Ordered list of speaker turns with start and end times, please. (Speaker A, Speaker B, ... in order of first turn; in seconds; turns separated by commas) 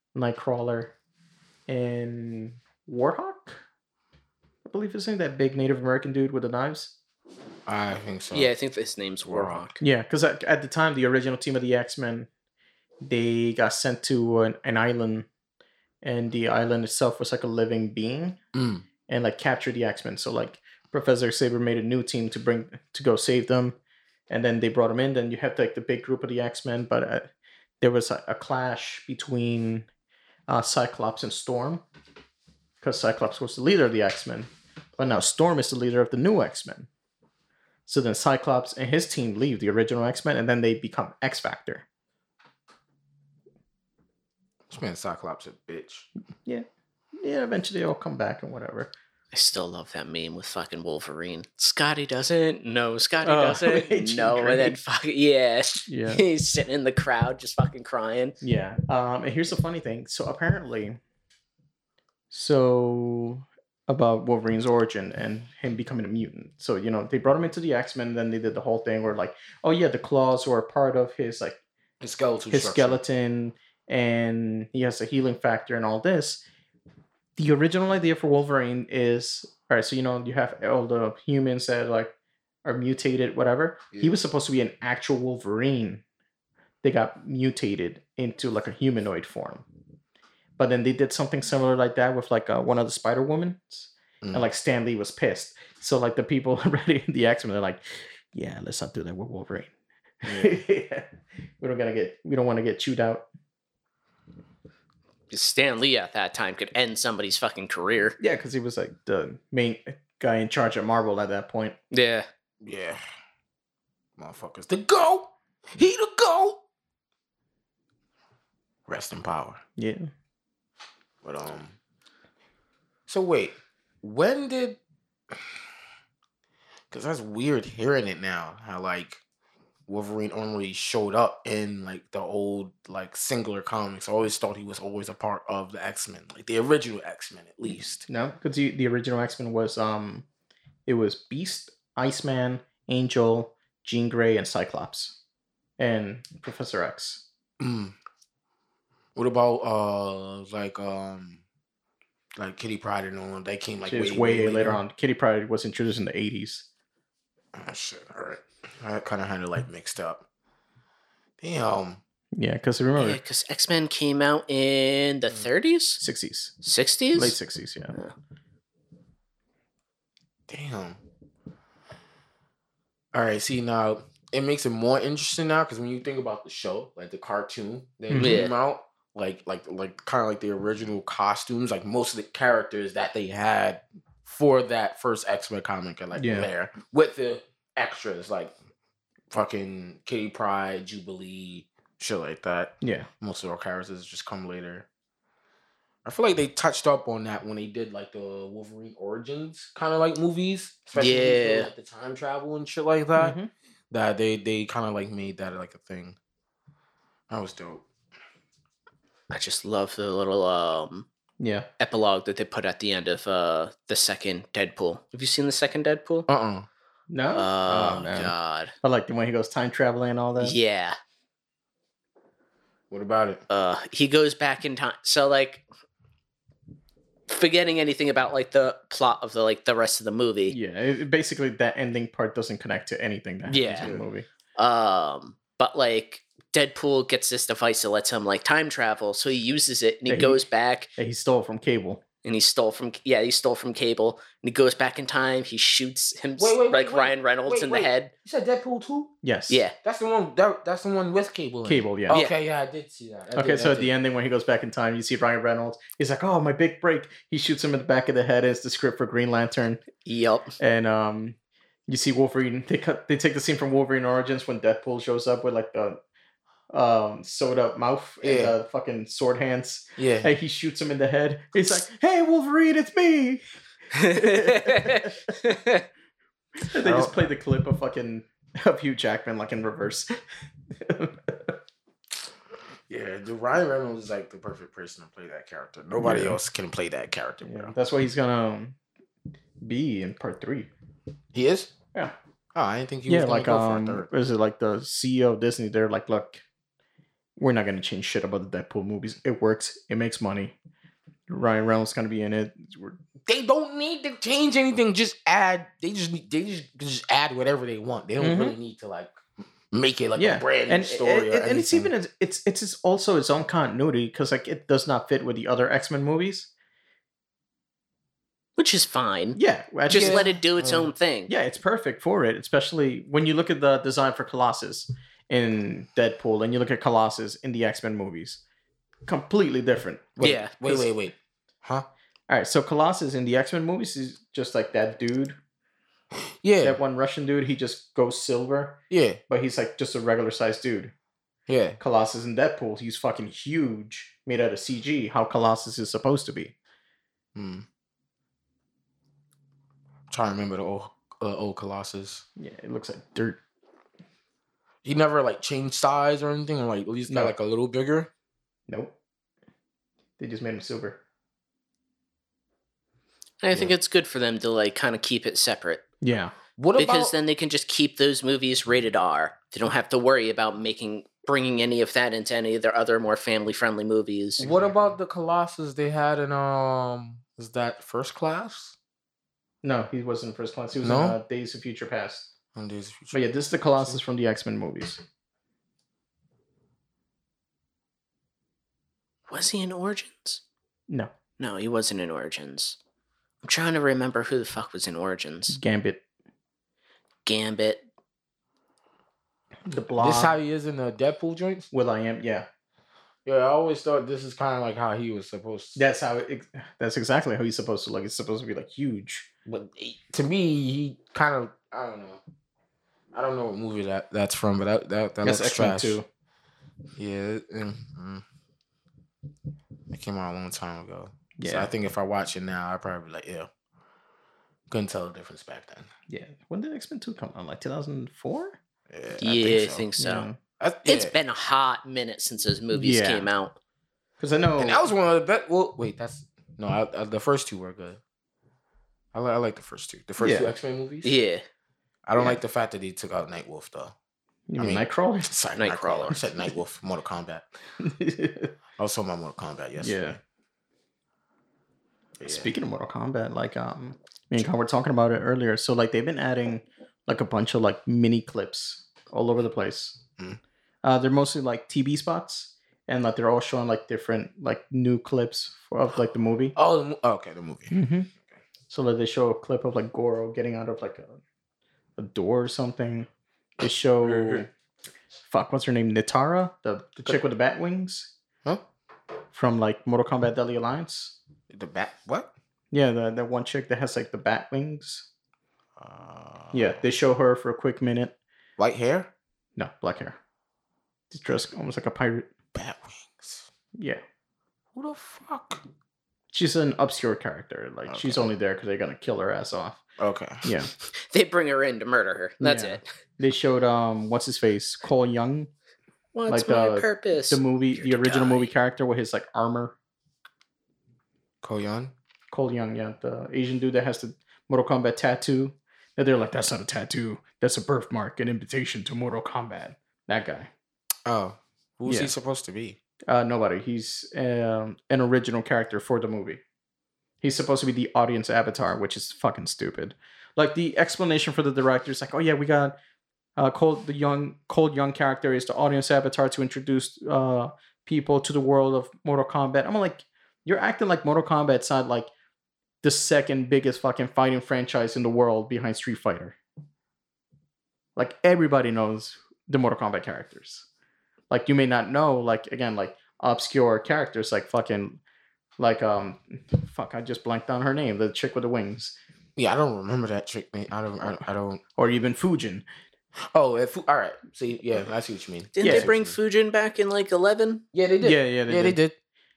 Speaker A: 0.1-0.9, Speaker A: 1.7-3.6, Speaker A: 4.7-7.0, Speaker B: 7.7-8.5, Speaker C: 8.3-9.8, Speaker B: 9.3-9.7, Speaker A: 9.8-12.3, Speaker A: 13.0-15.3, Speaker A: 16.0-18.4, Speaker B: 18.5-18.9, Speaker A: 19.1-23.8, Speaker A: 24.3-27.3, Speaker A: 27.8-29.9, Speaker A: 30.5-31.8, Speaker A: 32.8-36.9, Speaker A: 37.9-41.9, Speaker B: 44.7-46.1, Speaker A: 47.2-48.9, Speaker C: 49.3-58.4, Speaker A: 53.2-54.8, Speaker A: 55.9-56.2, Speaker A: 58.4-61.0, Speaker A: 62.3-71.6, Speaker B: 72.0-73.0, Speaker A: 72.5-76.4, Speaker A: 77.4-82.1, Speaker A: 82.7-86.0, Speaker A: 86.8-89.7, Speaker A: 90.6-99.7, Speaker A: 100.2-101.1, Speaker B: 100.2-100.5, Speaker A: 101.6-103.2, Speaker C: 105.3-108.2, Speaker A: 108.2-111.8, Speaker C: 111.9-112.3, Speaker B: 112.6-113.0, Speaker B: 114.2-116.6, Speaker B: 118.9-119.6, Speaker A: 119.8-120.1, Speaker B: 121.2-121.8, Speaker B: 123.1-124.8, Speaker B: 126.9-129.2, Speaker B: 129.9-138.1, Speaker A: 138.1-140.3, Speaker A: 140.9-145.2, Speaker A: 145.8-147.2, Speaker B: 147.6-147.9, Speaker B: 149.2-151.4, Speaker B: 152.4-154.8, Speaker A: 153.9-156.7, Speaker B: 157.5-160.2, Speaker B: 161.4-162.0, Speaker A: 162.3-163.2, Speaker C: 163.0-166.0, Speaker A: 166.0-166.6, Speaker C: 166.6-167.4, Speaker A: 167.1-168.0, Speaker B: 170.5-171.0, Speaker B: 173.1-188.5, Speaker A: 178.1-178.4, Speaker C: 178.1-178.5, Speaker A: 186.2-186.5, Speaker B: 189.3-194.9, Speaker A: 192.8-193.1, Speaker B: 196.1-203.4, Speaker C: 200.9-201.7, Speaker A: 203.2-203.5, Speaker B: 203.9-206.2, Speaker B: 207.3-207.8, Speaker C: 209.3-211.1, Speaker A: 211.4-211.7, Speaker C: 211.8-216.3, Speaker B: 216.3-216.7, Speaker A: 217.1-220.6, Speaker C: 217.3-218.7, Speaker C: 220.4-221.0, Speaker B: 222.9-223.4, Speaker C: 223.5-225.6, Speaker C: 227.3-230.6, Speaker A: 230.5-234.3, Speaker C: 233.5-233.9, Speaker B: 233.8-234.1, Speaker C: 234.6-240.9, Speaker A: 240.1-240.4, Speaker A: 241.0-242.0, Speaker C: 242.2-248.1, Speaker B: 246.4-249.1, Speaker A: 249.2-249.6, Speaker C: 249.5-249.7, Speaker B: 249.8-253.9, Speaker A: 251.7-252.2, Speaker C: 252.1-252.3, Speaker A: 253.3-259.8, Speaker C: 260.1-260.5, Speaker A: 260.6-261.4, Speaker A: 261.9-266.0, Speaker A: 266.7-273.4, Speaker B: 268.2-268.6, Speaker B: 270.0-270.3, Speaker C: 273.9-275.8, Speaker A: 274.0-275.2, Speaker A: 276.6-280.1, Speaker B: 276.8-277.3, Speaker A: 280.8-281.5, Speaker B: 282.9-287.7, Speaker A: 286.0-286.4, Speaker A: 287.4-288.8, Speaker A: 289.6-290.7, Speaker B: 291.3-291.7, Speaker B: 292.6-294.1, Speaker A: 293.1-296.4, Speaker A: 297.4-300.6, Speaker A: 301.3-303.0, Speaker B: 303.3-309.1, Speaker A: 308.2-308.6, Speaker B: 309.7-311.9, Speaker A: 310.2-316.5, Speaker C: 318.6-319.4, Speaker A: 319.4-320.4, Speaker C: 319.9-321.3, Speaker B: 319.9-320.9, Speaker A: 321.3-328.4, Speaker A: 329.1-330.9, Speaker B: 330.2-331.9, Speaker C: 330.2-330.5, Speaker A: 332.3-335.4, Speaker B: 336.4-336.8, Speaker A: 336.6-340.9, Speaker B: 338.9-339.2, Speaker B: 341.5-341.8, Speaker A: 341.8-346.5, Speaker B: 347.4-347.7, Speaker B: 350.1-352.2, Speaker A: 352.4-353.4, Speaker B: 354.8-358.1, Speaker A: 358.7-358.9, Speaker A: 360.2-361.0, Speaker C: 363.4-365.8, Speaker A: 366.0-366.3, Speaker B: 366.6-367.1, Speaker C: 366.8-374.5, Speaker B: 374.4-378.8, Speaker A: 374.4-374.9, Speaker A: 379.6-382.3, Speaker B: 380.8-381.2, Speaker B: 382.6-383.2, Speaker A: 383.1-385.0, Speaker C: 389.3-390.4, Speaker C: 391.4-392.8, Speaker C: 393.4-395.6, Speaker A: 395.5-396.0, Speaker C: 397.2-397.8, Speaker A: 399.7-400.4, Speaker B: 400.0-401.7, Speaker A: 401.7-402.5, Speaker B: 403.2-405.8, Speaker A: 405.8-409.3, Speaker B: 409.5-412.2, Speaker B: 413.1-416.0, Speaker A: 415.2-416.1, Speaker B: 417.0-418.2, Speaker B: 419.9-423.5, Speaker A: 421.4-421.7, Speaker B: 424.7-425.9, Speaker A: 426.1-428.6, Speaker B: 428.9-429.9, Speaker C: 429.2-430.3, Speaker A: 430.0-430.4, Speaker B: 430.6-431.1, Speaker C: 430.9-433.6, Speaker A: 432.7-433.3, Speaker A: 434.2-434.9, Speaker B: 434.6-438.0, Speaker B: 439.1-441.1, Speaker A: 440.2-440.5, Speaker C: 441.0-441.4, Speaker B: 442.1-443.9, Speaker A: 444.5-445.3, Speaker B: 444.6-447.5, Speaker C: 445.6-446.2, Speaker A: 447.8-448.5, Speaker B: 448.8-450.1, Speaker A: 449.8-450.2, Speaker B: 452.2-452.5, Speaker A: 452.3-460.0, Speaker A: 460.8-466.6, Speaker B: 466.6-467.8, Speaker A: 467.7-468.1, Speaker A: 468.7-471.2, Speaker A: 472.0-473.1, Speaker A: 473.6-474.5, Speaker B: 474.0-474.4, Speaker A: 475.3-478.1, Speaker A: 479.3-481.2, Speaker B: 481.5-482.3, Speaker A: 482.7-485.1, Speaker B: 485.8-486.8, Speaker A: 486.5-488.1, Speaker B: 488.6-489.1, Speaker A: 489.6-490.2, Speaker A: 491.1-492.3, Speaker B: 492.5-493.5, Speaker A: 493.8-494.0, Speaker B: 494.8-495.6, Speaker A: 496.3-499.8, Speaker B: 497.9-498.3, Speaker B: 500.0-500.5, Speaker A: 500.4-500.7, Speaker C: 500.9-502.8, Speaker A: 502.4-505.5, Speaker C: 506.1-507.4, Speaker A: 506.3-509.8, Speaker C: 508.0-508.5, Speaker B: 511.4-511.9, Speaker A: 512.3-520.5, Speaker B: 521.1-522.8, Speaker A: 523.1-526.4, Speaker A: 527.2-532.8, Speaker A: 533.4-542.1, Speaker A: 542.8-546.4, Speaker A: 548.0-550.7, Speaker A: 551.3-555.0, Speaker A: 555.6-559.0, Speaker B: 559.4-561.6, Speaker A: 561.8-562.7, Speaker B: 563.3-566.2, Speaker C: 565.5-567.6, Speaker A: 565.6-565.9, Speaker B: 567.7-569.0, Speaker A: 568.0-568.8